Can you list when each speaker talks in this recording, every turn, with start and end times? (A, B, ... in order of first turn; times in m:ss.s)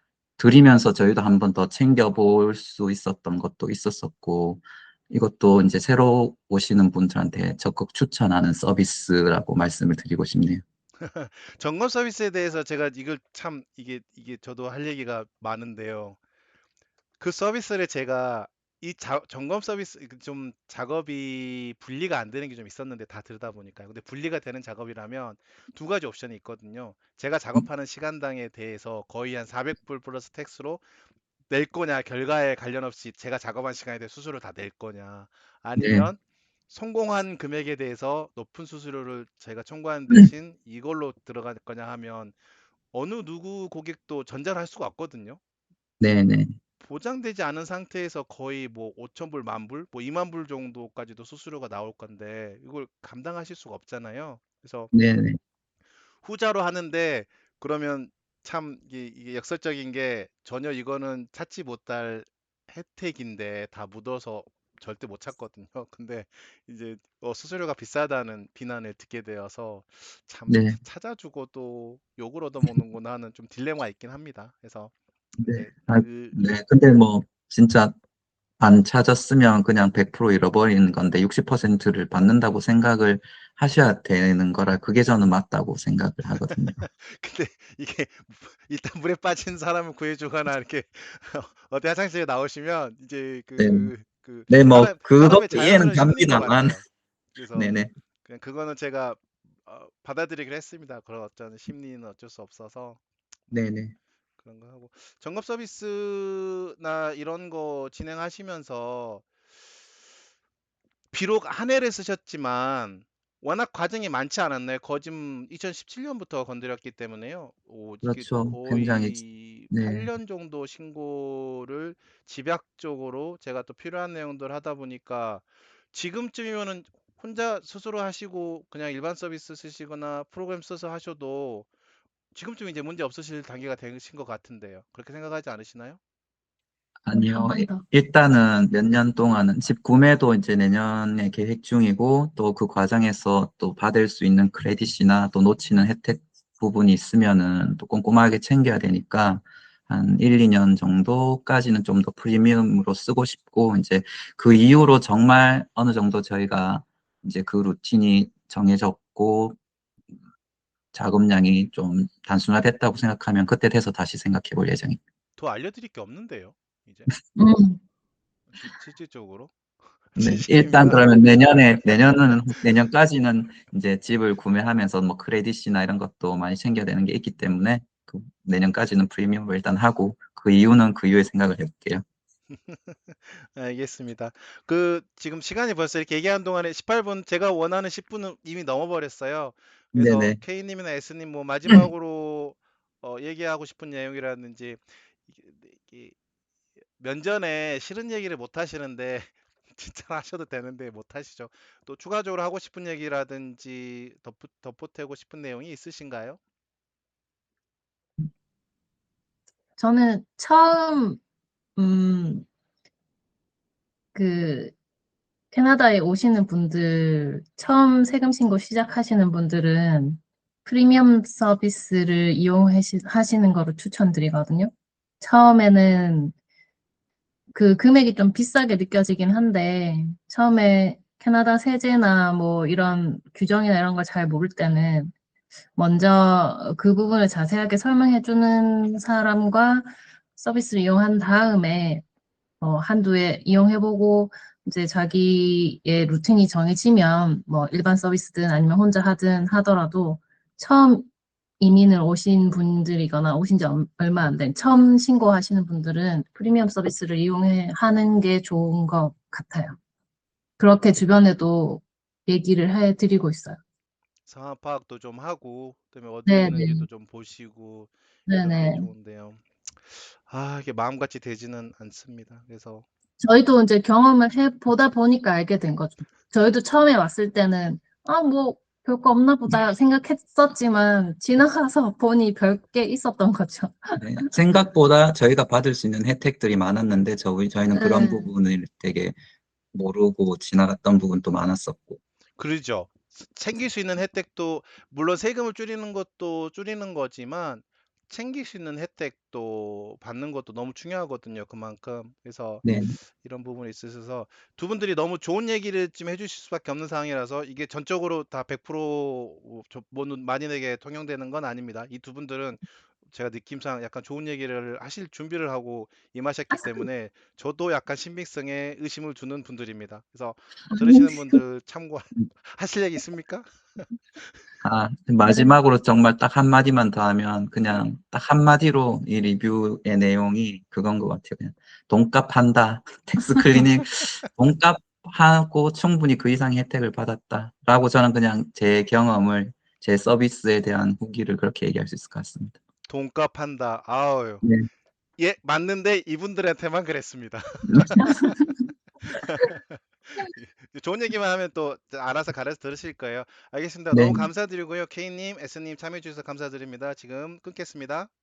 0:00.4-0:10.6 A
0:11.0-0:16.2 B
0:17.2-0:30.8 B
0:31.5-0:42.4 B
0:35.8-0:36.1 A
0:42.9-0:45.4 B
0:46.0-0:46.6 A
0:46.8-0:54.9 B
0:54.9-0:55.4 A
0:56.2-1:16.5 B
1:10.5-1:10.8 A
1:15.4-1:17.9 A
1:18.6-1:26.8 A
1:26.8-1:36.8 B
1:33.6-1:33.9 A
1:34.5-1:36.8 A
1:37.4-1:43.0 B
1:37.5-1:37.9 A
1:43.5-1:44.0 A
1:44.4-1:49.3 B
1:51.1-2:11.7 B
1:58.0-2:00.1 A
2:12.3-2:16.0 B
2:17.1-2:39.6 A
2:17.2-2:17.8 C
2:40.9-2:45.0 A
2:45.4-2:47.1 B
2:47.4-2:47.8 C
2:48.5-2:49.5 B
2:50.1-2:52.2 B
2:50.2-3:02.0 A
3:02.5-3:16.2 B
3:10.0-3:10.4 A
3:17.0-3:26.4 B
3:29.8-3:31.2 C
3:31.8-3:32.5 C
3:34.2-3:34.7 C
3:35.5-3:46.3 C
3:47.5-3:55.1 C
3:55.8-4:02.0 C
4:02.6-4:11.1 C
4:11.6-4:19.8 C
4:20.6-4:23.6 C
4:24.3-4:32.8 B
4:26.3-4:26.9 C
4:28.3-4:28.9 C
4:33.2-4:44.0 C
4:44.0-4:49.2 A
4:47.7-4:48.3 C
4:49.7-4:52.0 A
4:52.4-5:02.6 B
5:02.6-5:03.0 A
5:03.2-5:24.3 B
5:16.6-5:16.8 C
5:20.7-5:21.4 C
5:24.6-5:42.6 A
5:42.9-5:44.4 B
5:44.4-5:44.7 A
5:45.2-5:48.3 B
5:47.7-5:48.6 A
5:49.0-5:58.1 B
5:53.9-5:54.3 A